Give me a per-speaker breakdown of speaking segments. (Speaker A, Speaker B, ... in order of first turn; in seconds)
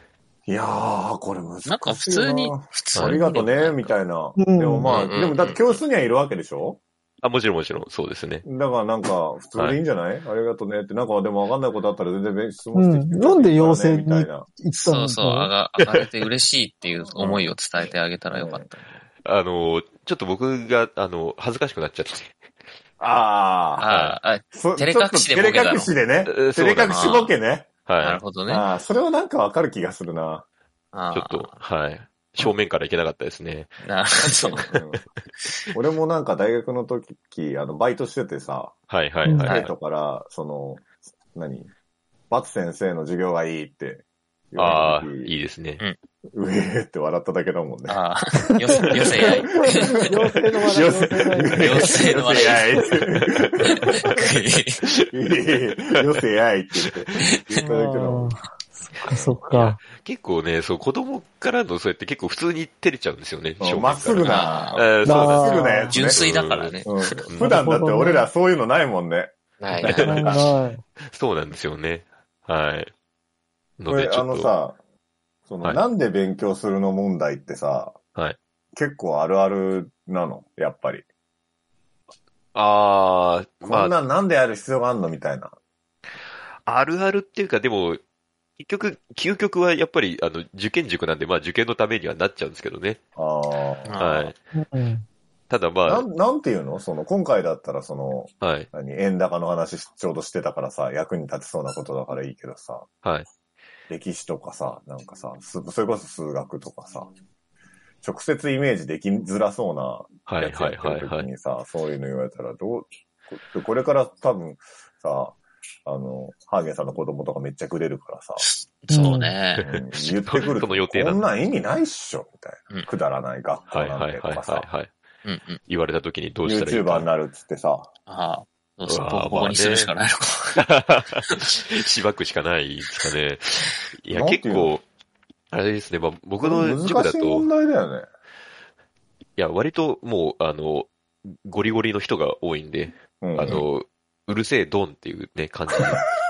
Speaker A: 0.5-6.8, 8.4-14.5, 17.1-17.5, 18.3-18.7, 23.0-23.9, 24.5-27.7, 28.5-30.4, 34.5-35.0, 35.7-38.7, 39.4-41.7, 42.3-45.3, 46.3-48.0, 50.6-53.9, 55.1-58.4, 59.0-59.4, 63.6-66.2, 66.8-70.6, 73.9-74.8, 75.5-78.0, 78.7-81.0, 83.6-85.5, 93.2-94.0, 95.8-102.9, 103.9-107.1, 108.0-118.5, 119.6-124.7, 126.4-127.9, 134.1-134.7, 136.4-138.1, 143.2-143.6
Speaker B: 1.6-3.9, 4.8-5.8, 14.7-19.0, 23.8-25.9, 26.9-27.3, 28.0-28.7, 30.9-31.5, 33.8-34.8, 39.4-39.7, 47.9-50.0, 51.5-52.9, 53.6-54.8, 64.2-64.8, 65.9-67.3, 69.6-70.2, 93.8-94.3, 118.4-119.7, 125.2-125.6, 128.1-130.6
Speaker C: 2.9-3.3, 7.2-8.4, 9.6-9.8, 19.2-22.3, 23.9-24.2, 26.2-27.0, 27.9-28.2, 31.1-33.8, 38.9-39.7, 44.5-45.8, 59.5-67.6, 70.1-70.4, 71.1-72.9, 73.8-74.5, 82.5-84.0, 86.7-88.0, 88.6-93.0, 94.0-94.3, 95.5-96.0, 98.4-98.7, 110.3-111.3, 119.6-121.3, 123.7-124.9, 125.7-127.1, 128.9-129.9, 130.6-134.8, 135.5-137.5, 139.4-146.0
Speaker D: 4.4-4.9, 12.7-15.5, 39.2-39.5, 49.9-52.1, 57.6-59.8, 65.0-66.0, 67.4-68.3, 69.9-70.8, 94.5-95.0, 118.9-119.3